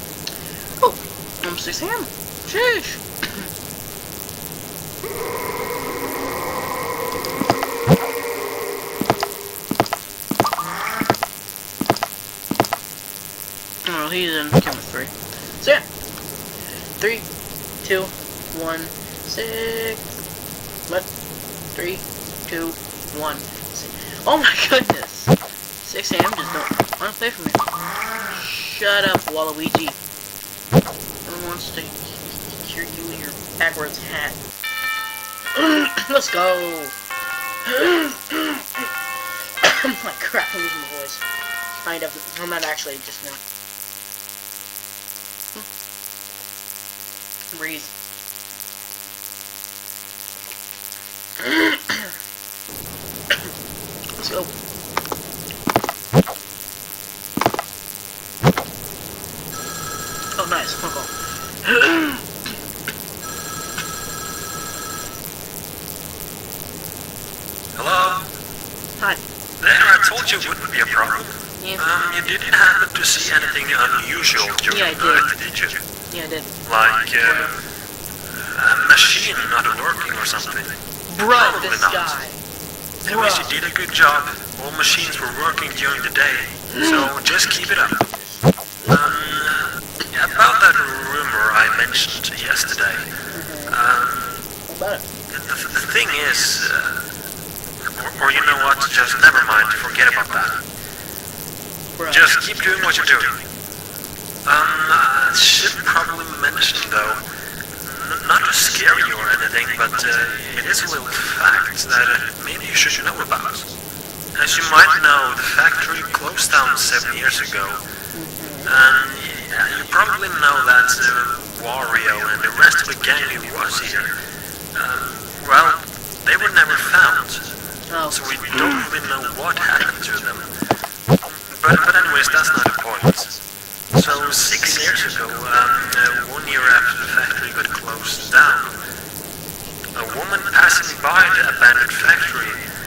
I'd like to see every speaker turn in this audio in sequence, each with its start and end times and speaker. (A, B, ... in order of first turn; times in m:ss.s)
0:00.8-0:03.5 A
0:13.9-0:15.8 A
0:17.0-0:17.3 A
0:17.8-0:20.1 A
0:21.8-0:27.6 A
0:28.3-0:30.0 A
0:31.2-0:34.4 A
0:35.6-0:37.0 A
0:37.6-0:38.9 A
0:39.6-0:41.2 A
0:41.8-0:43.4 A
0:47.5-0:47.9 A
0:51.4-0:52.1 A
0:54.2-0:54.5 A
1:00.4-1:02.6 A
1:07.8-1:08.3 B
1:09.6-1:15.8 B
1:11.6-1:11.9 A
1:14.7-1:15.3 A
1:16.1-1:16.5 A
1:16.6-1:17.6 B
1:17.2-1:17.6 A
1:18.3-1:20.8 B
1:21.1-1:22.4 A
1:21.3-1:22.2 B
1:23.0-1:28.0 B
1:23.0-1:23.6 A
1:26.7-1:29.0 A
1:28.9-1:33.1 B
1:33.3-1:33.8 A
1:33.7-1:34.5 B
1:34.7-1:35.0 A
1:35.3-1:37.0 B
1:37.8-1:40.6 B
1:42.0-1:42.3 A
1:42.1-1:43.4 B
1:44.4-1:47.2 B
1:47.8-1:53.7 B
1:54.4-1:57.8 B
1:58.1-1:58.7 A
1:58.7-2:04.1 B
2:04.7-2:07.5 B
2:07.9-2:08.9 A
2:08.1-2:10.5 B
2:11.4-2:13.4 B
2:13.9-2:18.8 B
2:20.0-2:22.6 B